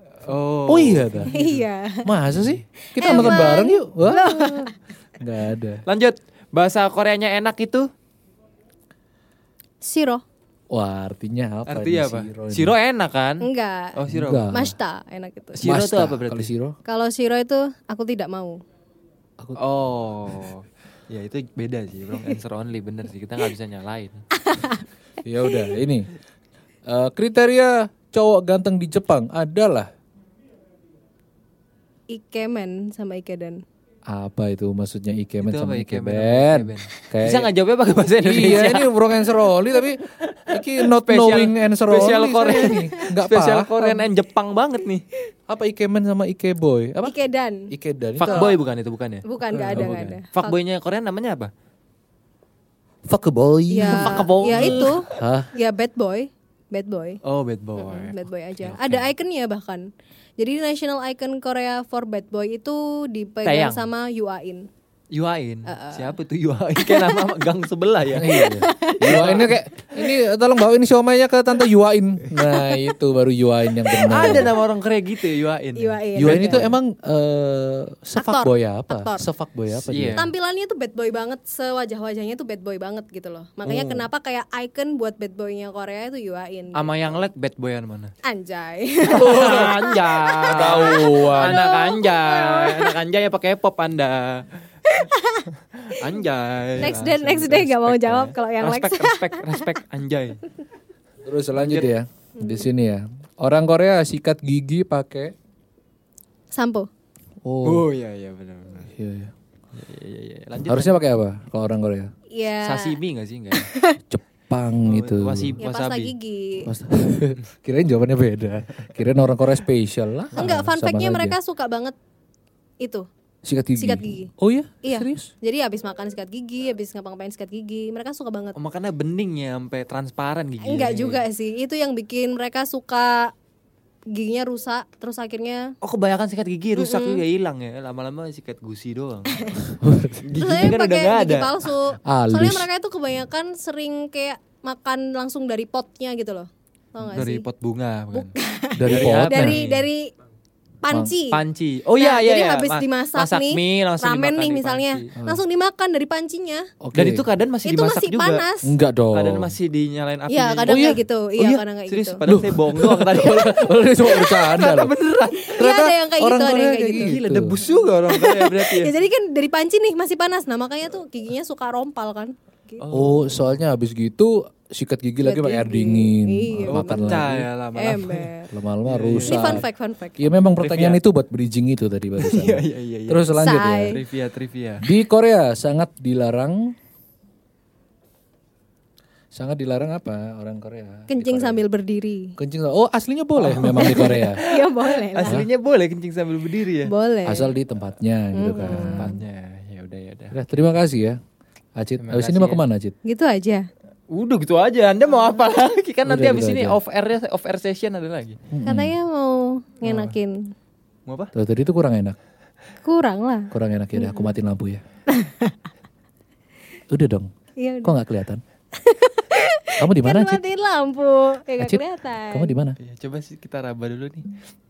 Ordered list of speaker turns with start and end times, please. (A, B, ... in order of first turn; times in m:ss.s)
0:00.2-0:01.6 A
0:00.7-0:01.3 B
0:01.3-0:02.1 C
0:02.0-0:05.8 B
0:03.0-0:04.7 C
0:03.1-0:03.5 A
0:05.9-0:07.9 A
0:09.8-0:10.2 C
0:10.7-0:12.7 B
0:11.7-0:13.4 A
0:13.4-0:14.0 C
0:14.0-0:14.5 A
0:14.1-0:14.7 B
0:14.5-0:15.6 C
0:15.6-0:16.5 A
0:15.6-0:16.8 B
0:16.9-0:18.6 C
0:19.6-0:24.2 A
0:24.4-0:24.8 C
0:25.2-0:26.1 B
0:25.5-0:25.7 C
0:26.9-0:29.9 B
0:32.1-0:33.6 C
0:34.1-0:37.5 B
0:35.4-0:38.9 A
0:38.2-0:44.1 B
0:40.2-0:45.0 A
0:42.6-0:43.0 C
0:45.5-0:47.2 B
0:47.0-0:47.7 C
0:47.7-0:48.6 B
0:48.2-0:51.5 A
0:48.2-0:48.5 C
0:49.2-0:50.6 C
0:49.5-0:50.1 B
0:53.1-0:55.5 B
0:53.7-0:57.2 C
0:53.9-0:55.2 A
0:57.2-0:59.0 A
0:57.8-1:04.7 C
1:03.4-1:03.9 A
1:05.1-1:08.4 A
1:05.7-1:06.1 C
1:06.8-1:07.3 C
1:08.1-1:14.5 B
1:08.3-1:10.1 C
1:09.0-1:09.5 A
1:12.4-1:12.9 C
1:13.9-1:14.5 C
1:14.1-1:16.7 A
1:15.8-1:16.7 C
1:16.2-1:20.2 B
1:18.2-1:19.2 C
1:19.8-1:20.3 A
1:20.1-1:27.2 C
1:23.6-1:24.1 B
1:26.7-1:28.1 A
1:28.2-1:33.0 C
1:29.0-1:34.4 A
1:29.1-1:29.8 B
1:30.4-1:31.7 B
1:34.8-1:36.0 C
1:35.9-1:40.4 A
1:36.8-1:39.7 C
1:41.2-1:45.3 B
1:41.6-1:41.9 A
1:42.4-1:42.6 C
1:46.5-1:46.9 C
1:47.4-1:47.9 B
1:47.6-1:48.9 A
1:48.8-1:49.3 B
1:49.7-1:51.0 A
1:50.7-1:52.1 B
1:52.3-1:53.0 C
1:52.6-1:53.7 A
1:53.5-1:54.0 C
1:54.0-1:55.6 B
1:54.8-1:56.1 A
1:55.6-1:56.7 C
1:56.6-2:01.4 B
2:00.3-2:00.7 A
2:00.4-2:01.9 C
2:02.8-2:03.1 C
2:03.4-2:05.3 B
2:03.8-2:04.3 C
2:04.8-2:08.6 C
2:08.6-2:11.2 A
2:10.6-2:13.3 C
2:14.1-2:15.8 C
2:15.8-2:19.5 A
2:16.8-2:17.2 C
2:19.3-2:19.7 C
2:19.8-2:20.2 B
2:20.2-2:21.7 A
2:20.3-2:27.4 C
2:22.0-2:22.7 B
2:27.1-2:28.3 A
2:28.1-2:30.1 C
2:28.8-2:29.6 B
2:28.9-2:29.9 A
2:30.8-2:31.4 C
2:30.9-2:31.2 B
2:31.3-2:35.1 A
2:32.0-2:36.7 C
2:36.8-2:37.2 B
2:36.9-2:38.4 A
2:37.6-2:38.7 C
2:38.6-2:39.5 B
2:39.1-2:45.6 A
2:40.3-2:42.2 C
2:40.7-2:41.0 B
2:42.2-2:44.9 B
2:45.4-2:47.1 C
2:45.6-2:47.5 B
2:47.0-2:48.9 A
2:47.7-2:52.8 C
2:52.8-2:53.3 A
2:52.9-2:57.5 B
2:55.2-2:58.5 C
2:56.7-2:58.3 A
2:58.5-2:59.6 B
2:58.8-2:59.6 A
2:59.2-3:00.4 C
3:00.2-3:04.0 B
3:00.6-3:01.0 A
3:02.2-3:04.8 A
3:03.3-3:04.0 C
3:04.8-3:06.7 B
3:09.3-3:11.6 B
3:11.1-3:12.4 C
3:12.4-3:14.4 B
3:13.4-3:16.9 A
3:13.6-3:15.4 C
3:16.8-3:17.5 C
3:17.2-3:19.2 B
3:18.3-3:19.2 C
3:18.4-3:20.4 A
3:20.3-3:21.2 B
3:21.8-3:23.0 B
3:22.0-3:22.6 A
3:23.0-3:23.7 C
3:24.1-3:28.4 A
3:26.0-3:26.8 B
3:28.5-3:29.0 B
3:28.6-3:30.5 C
3:29.8-3:30.1 A
3:31.1-3:31.3 A
3:31.3-3:32.2 B
3:32.8-3:34.3 C
3:33.5-3:34.8 B
3:35.1-3:35.6 C
3:36.9-3:37.3 B
3:37.6-3:38.0 C
3:37.8-3:38.4 B
3:38.8-3:42.5 C
3:39.8-3:40.4 B
3:41.6-3:42.8 B
3:42.8-3:44.3 A